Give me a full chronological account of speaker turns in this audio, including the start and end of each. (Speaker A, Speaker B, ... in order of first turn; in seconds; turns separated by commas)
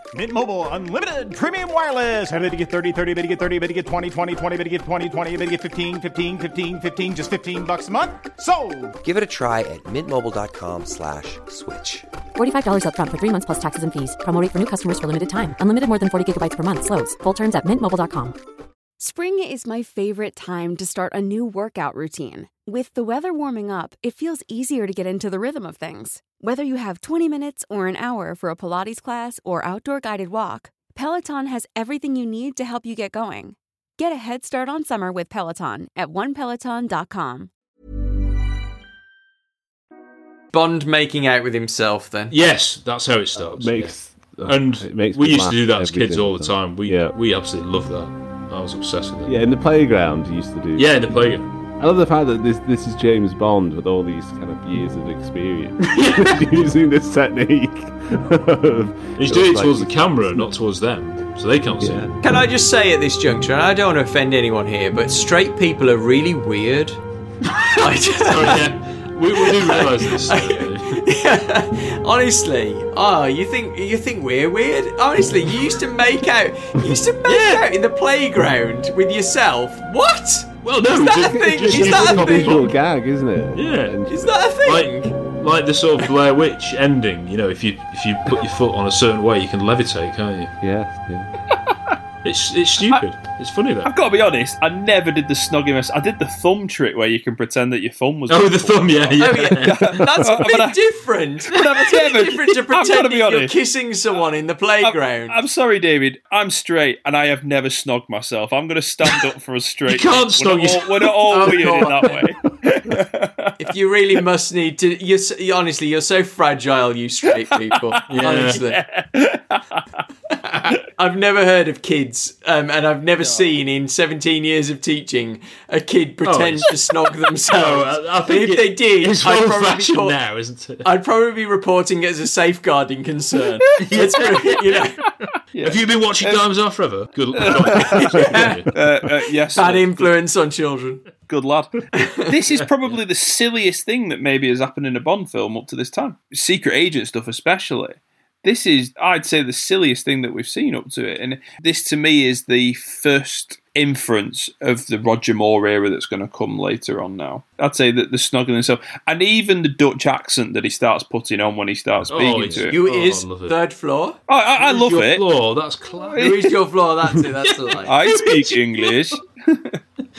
Speaker A: 0.1-8.9, Speaker B: 9.0-12.1, Speaker C: 12.3-18.3, Speaker D: 19.0-37.5, Speaker E: 40.5-42.3, Speaker F: 42.3-49.4, Speaker G: 43.4-47.1, Speaker G: 49.2-60.5, Speaker F: 50.8-51.5, Speaker F: 55.9-56.5, Speaker F: 59.1-62.1, Speaker G: 61.8-62.1, Speaker E: 62.2-67.0, Speaker F: 67.5-71.0, Speaker E: 67.7-68.7, Speaker E: 69.3-82.6, Speaker F: 77.2-77.6, Speaker F: 80.6-82.8, Speaker G: 81.2-84.3, Speaker F: 83.5-84.0, Speaker E: 84.1-85.2, Speaker F: 84.6-90.5, Speaker G: 90.6-91.3, Speaker F: 92.2-93.9, Speaker H: 93.8-100.8, Speaker F: 98.3-100.0, Speaker E: 99.2-105.3, Speaker H: 101.5-103.5, Speaker H: 104.8-113.5, Speaker F: 109.9-111.7, Speaker E: 111.3-112.2, Speaker E: 113.6-118.8, Speaker F: 118.1-118.6, Speaker H: 118.2-120.0, Speaker E: 120.4-130.2, Speaker H: 123.2-123.5, Speaker F: 126.2-126.8, Speaker F: 127.5-130.8, Speaker E: 130.8-135.0, Speaker H: 133.8-134.2, Speaker F: 133.8-134.9, Speaker H: 135.5-136.4, Speaker F: 135.6-138.7, Speaker H: 137.3-140.0, Speaker E: 138.0-138.5, Speaker E: 139.6-141.0, Speaker H: 141.3-162.8, Speaker E: 141.9-142.3, Speaker F: 162.1-163.6, Speaker E: 162.7-164.2, Speaker H: 164.3-165.2, Speaker F: 164.6-166.5, Speaker H: 166.1-166.4, Speaker E: 166.2-167.9, Speaker F: 167.7-169.0, Speaker H: 167.8-169.8